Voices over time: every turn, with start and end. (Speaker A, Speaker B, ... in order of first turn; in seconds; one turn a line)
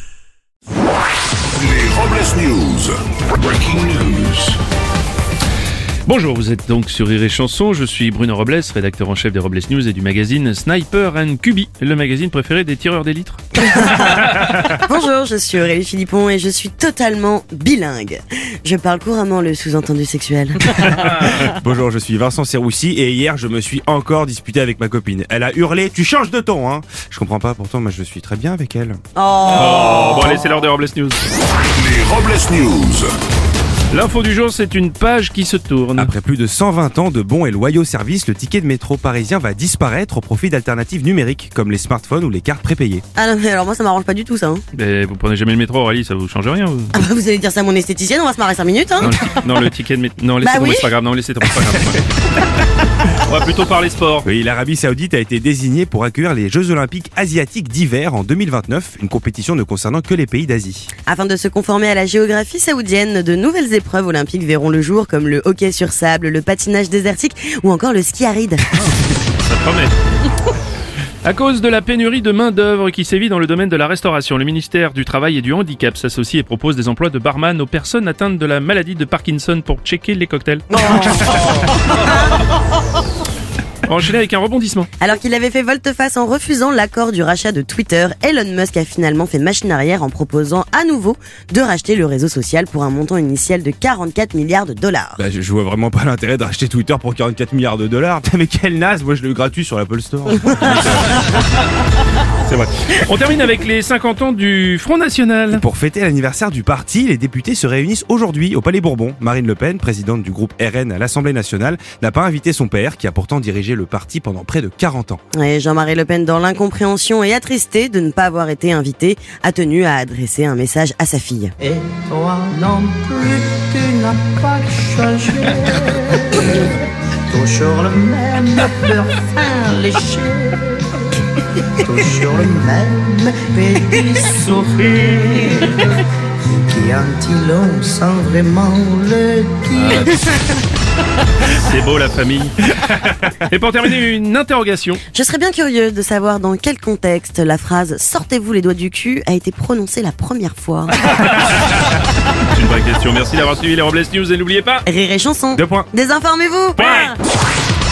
Speaker A: 1.5-4.6
Speaker B: 6.0-14.6
Speaker C: 13.6-20.8
Speaker B: 20.8-21.3
Speaker D: 20.9-29.0
Speaker C: 29.1-30.4
Speaker B: 29.5-31.2
Speaker A: 31.8-33.1
Speaker B: 33.9-36.1
Speaker D: 36.0-43.0
Speaker C: 43.1-44.6
Speaker B: 44.7-46.9
Speaker C: 47.0-49.4
Speaker B: 49.0-52.1
Speaker C: 50.4-50.9
Speaker B: 53.1-54.2
Speaker D: 54.2-60.9
Speaker C: 61.0-68.9
Speaker B: 69.4-69.9
Speaker B: 71.2-81.9
Speaker C: 80.7-82.3
Speaker B: 83.8-84.9
Speaker C: 85.0-95.2
Speaker D: 95.2-101.5
Speaker C: 100.5-100.8
Speaker B: 101.0-101.4
Speaker B: 102.4-105.6
Speaker D: 105.5-115.2
Speaker C: 115.3-121.5
Speaker E: 121.6-131.2
Speaker E: 131.7-136.0
Speaker E: 136.7-140.1
Speaker B: 139.7-140.3
Speaker B: 141.5-145.0
Speaker C: 145.1-150.9
Speaker B: 151.1-151.8
Speaker B: 152.4-154.8
Speaker C: 154.9-157.1
Speaker D: 155.5-155.9
Speaker B: 156.8-157.2